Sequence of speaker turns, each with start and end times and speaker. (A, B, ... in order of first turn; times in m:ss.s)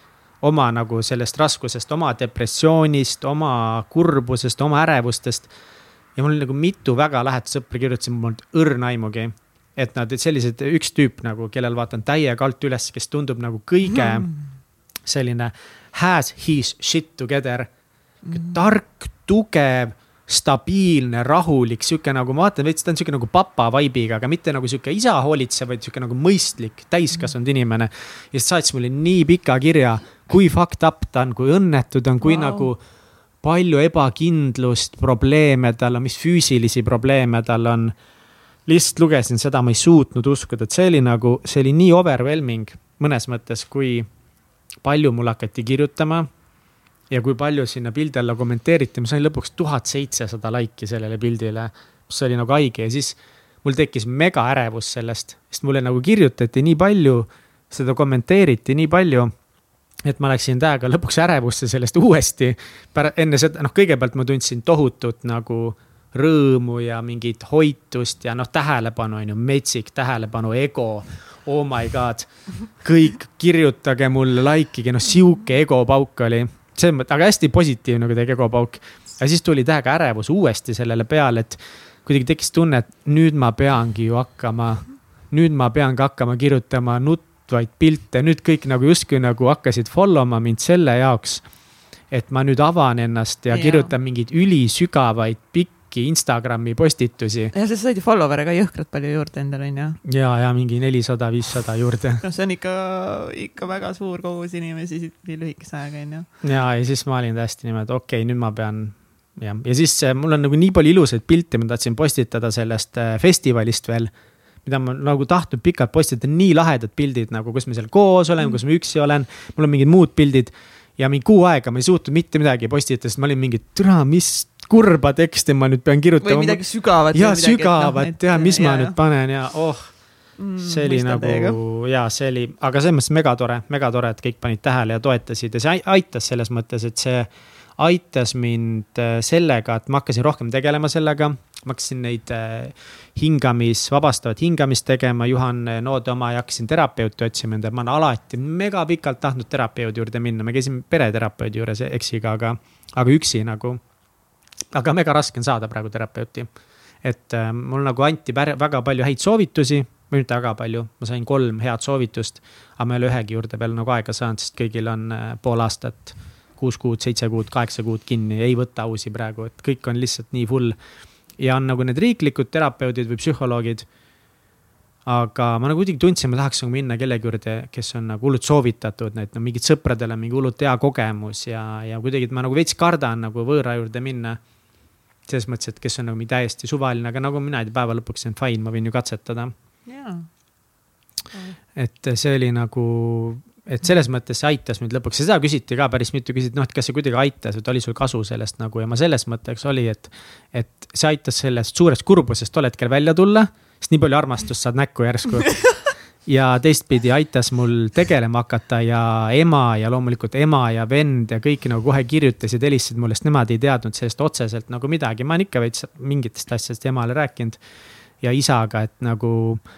0:00.4-0:05.5 A
0:06.2-0:14.3 A
0:15.0-0:17.7 A
0:18.2-0:18.6 B
0:18.3-0:32.8 A
0:32.2-0:32.7 B
0:33.4-0:38.0 A
0:38.7-0:44.1 A
0:44.8-0:46.3 A
0:47.1-0:59.3 A
1:00.0-1:31.4 A
1:32.1-1:37.5 A
1:33.5-1:33.9 B
1:37.5-1:40.0 B
1:40.0-1:42.2 A
1:42.2-1:46.3 B
1:46.4-1:54.1 A
1:54.6-2:09.9 A
2:06.2-2:09.0 B
2:10.4-2:11.6 B
2:10.6-2:33.8 A
2:34.7-2:36.5 A
2:37.0-2:50.8 A
2:51.4-2:53.9 A
2:55.1-3:04.4 A
3:05.3-3:09.5 A
3:09.9-3:10.3 B
3:11.8-3:37.6 A
3:38.2-3:39.6 A